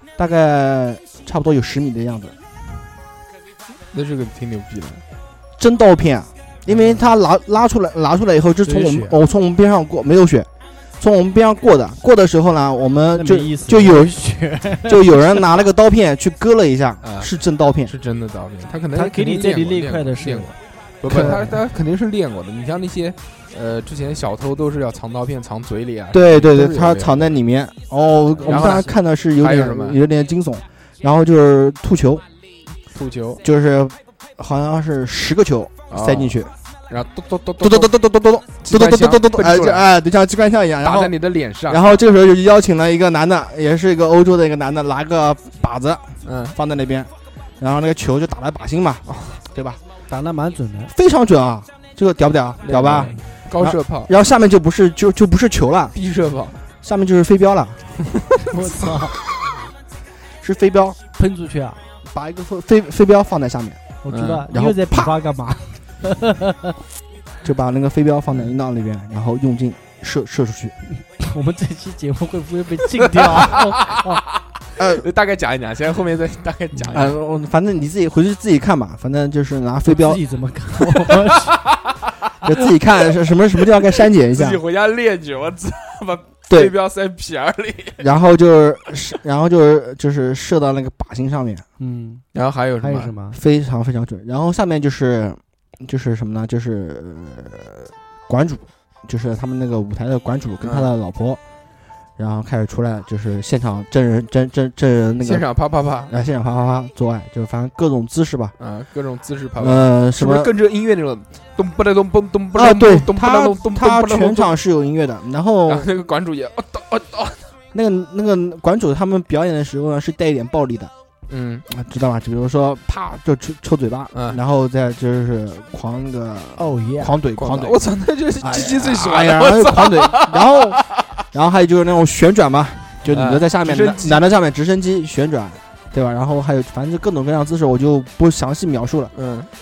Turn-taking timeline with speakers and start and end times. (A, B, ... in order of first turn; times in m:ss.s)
0:00.2-0:02.4 A
0:03.9-0:05.0 B
0:05.6-0:14.2 A
0:08.6-0:09.2 C
0:13.1-0:15.4 C
0:14.8-0:17.9 A
0:17.0-0:17.3 B
0:17.9-0:27.3 B
0:18.9-0:20.6 C
0:21.0-0:21.5 A
0:21.1-0:21.4 C
0:26.1-0:32.2 A
0:28.4-0:30.0 B
0:28.5-0:28.9 C
0:32.9-0:33.4 B
0:33.4-0:36.5 A
0:35.9-0:37.9 B
0:37.6-0:41.2 A
0:38.6-0:39.9 B
0:40.8-0:42.0 B
0:41.7-0:49.8 A
0:46.2-0:46.6 B
0:49.1-0:49.4 B
0:50.1-0:50.9 C
0:50.9-0:56.0 A
0:52.6-0:54.1 B
0:56.0-0:56.6 B
0:56.8-0:57.9 A
0:58.5-0:59.2 C
1:00.4-1:01.0 A
1:01.2-1:01.8 C
1:02.1-1:03.8 A
1:04.0-1:06.7 C
1:04.1-1:04.5 B
1:04.5-1:05.1 A
1:07.4-1:10.8 A
1:11.0-1:14.2 C
1:13.0-1:14.2 B
1:14.8-1:15.1 A
1:14.8-1:17.1 B
1:16.9-1:20.2 A
1:19.9-1:21.6 C
1:21.6-1:22.1 B
1:22.4-1:24.6 A
1:23.8-1:28.0 B
1:26.5-1:26.7 A
1:28.0-1:31.6 A
1:31.8-1:32.2 C
1:32.3-1:33.1 B
1:32.8-1:33.4 C
1:33.3-1:41.4 A
1:40.6-1:40.9 B
1:42.2-1:45.5 A
1:45.2-1:46.1 B
1:46.1-1:48.6 A
1:48.6-1:54.5 B
1:49.6-1:50.5 A
1:52.5-1:55.9 A
1:55.7-1:57.5 B
1:57.7-2:00.9 A
2:01.3-2:01.6 B
2:01.7-2:07.8 A
2:04.1-2:04.4 B
2:06.6-2:07.2 C
2:07.4-2:11.0 B
2:08.4-2:19.1 A
2:13.1-2:14.2 B
2:19.2-2:19.5 B